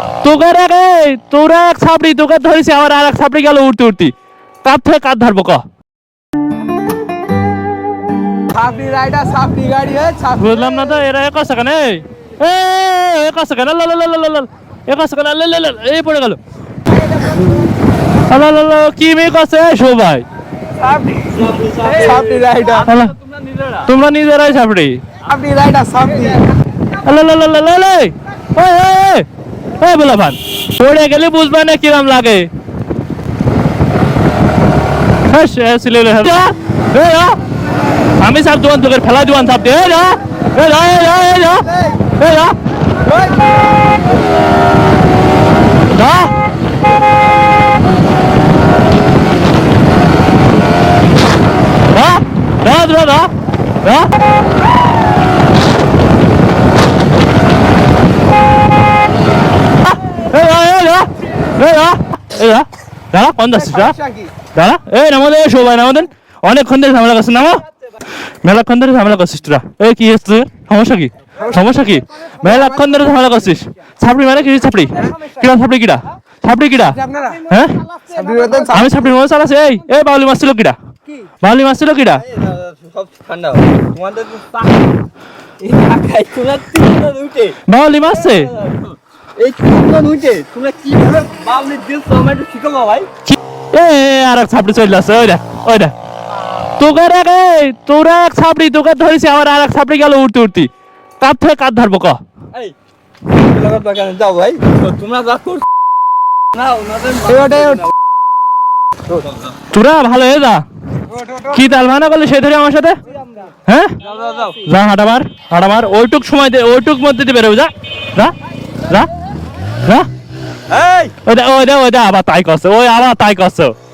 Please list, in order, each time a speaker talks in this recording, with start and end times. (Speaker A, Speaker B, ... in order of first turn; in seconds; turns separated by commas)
Speaker A: 0.2-5.6, Speaker B: 8.5-10.6, Speaker A: 10.3-16.4, Speaker A: 18.3-20.2, Speaker C: 21.1-23.8, Speaker B: 21.8-22.9, Speaker A: 22.8-23.1, Speaker A: 23.8-25.0, Speaker B: 25.2-26.4, Speaker A: 27.0-29.2, Speaker A: 29.8-32.5, Speaker A: 35.3-37.4, Speaker A: 38.2-42.6, Speaker A: 45.9-46.3, Speaker A: 51.9-54.1, Speaker A: 59.8-63.9, Speaker B: 63.6-64.3, Speaker A: 64.5-67.6, Speaker A: 68.4-77.8, Speaker B: 77.0-77.4, Speaker B: 78.1-78.9, Speaker A: 78.7-80.8, Speaker A: 81.4-82.2, Speaker C: 82.2-84.9, Speaker C: 85.6-93.1, Speaker A: 87.7-88.5, Speaker A: 93.3-95.9, Speaker A: 96.8-102.2, Speaker C: 103.3-105.6, Speaker C: 106.5-107.9, Speaker B: 107.3-107.8, Speaker C: 109.1-109.5, Speaker A: 109.7-110.6, Speaker A: 111.4-113.0, Speaker A: 113.6-114.0, Speaker C: 114.0-114.6, Speaker A: 114.6-118.3, Speaker A: 119.8-120.1, Speaker C: 120.7-121.1, Speaker A: 121.2-123.7